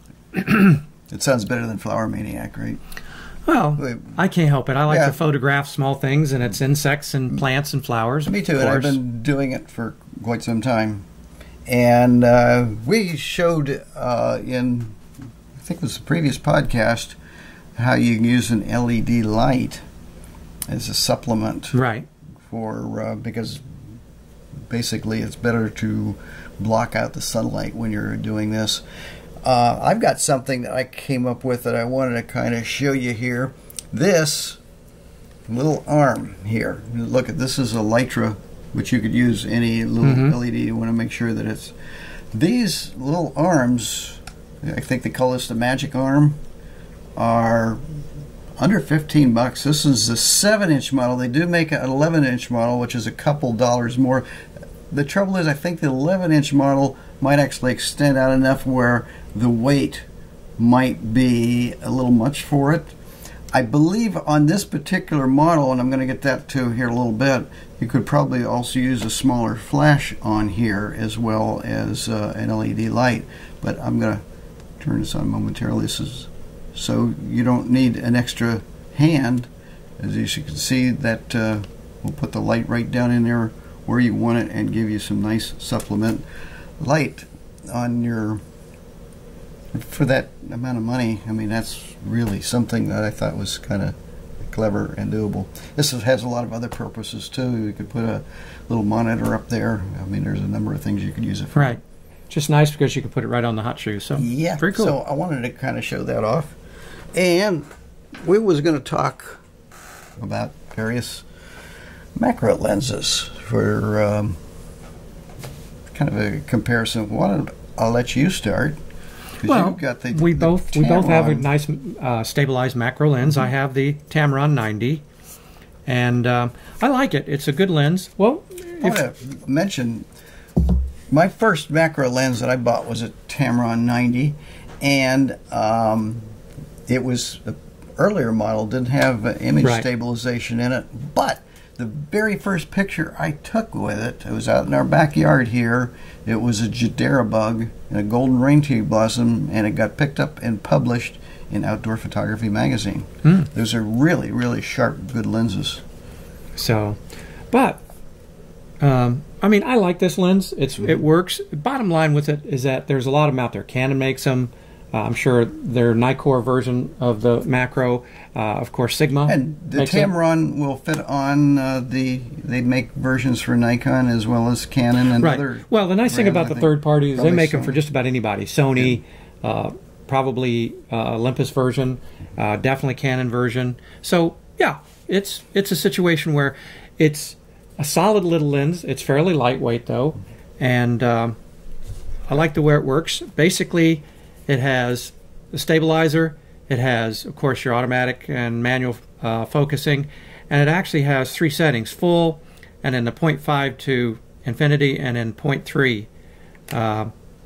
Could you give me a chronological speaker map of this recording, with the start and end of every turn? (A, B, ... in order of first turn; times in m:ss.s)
0:00.3-0:02.8 A
0:03.5-0:09.0 B
0:03.8-0:04.2 A
0:04.9-0:05.2 A
0:08.2-0:11.0 A
0:11.7-0:15.0 A
0:15.6-0:17.2 A
0:17.8-0:19.8 A
0:20.7-0:21.8 A
0:21.7-0:22.1 B
0:22.5-0:23.6 A
0:24.7-0:28.8 A
0:29.4-0:34.6 A
0:35.5-0:41.8 A
0:40.0-0:40.4 B
0:42.3-0:46.4 A
0:47.2-0:47.8 A
0:48.6-0:54.3 A
0:54.9-1:00.0 A
1:00.6-1:02.9 A
1:03.5-1:14.2 A
1:14.8-1:26.2 A
1:26.8-1:28.4 A
1:29.7-1:33.9 A
1:34.5-1:41.8 A
1:41.6-1:44.9 B
1:44.1-1:46.6 A
1:47.1-1:47.7 A
1:48.2-1:49.4 A
1:50.2-1:51.2 A
1:52.2-1:54.4 A
1:55.9-1:58.8 A
1:59.4-2:01.5 A
1:59.4-2:05.0 B
2:05.9-2:09.0 B
2:08.8-2:10.1 A
2:11.1-2:16.3 A
2:16.9-2:35.8 A
2:36.6-2:37.0 B
2:37.5-2:37.8 B
2:38.8-2:50.1 B
2:49.3-2:57.8 A
2:55.2-3:11.4 B
3:12.3-3:26.1 B
3:26.7-3:27.1 B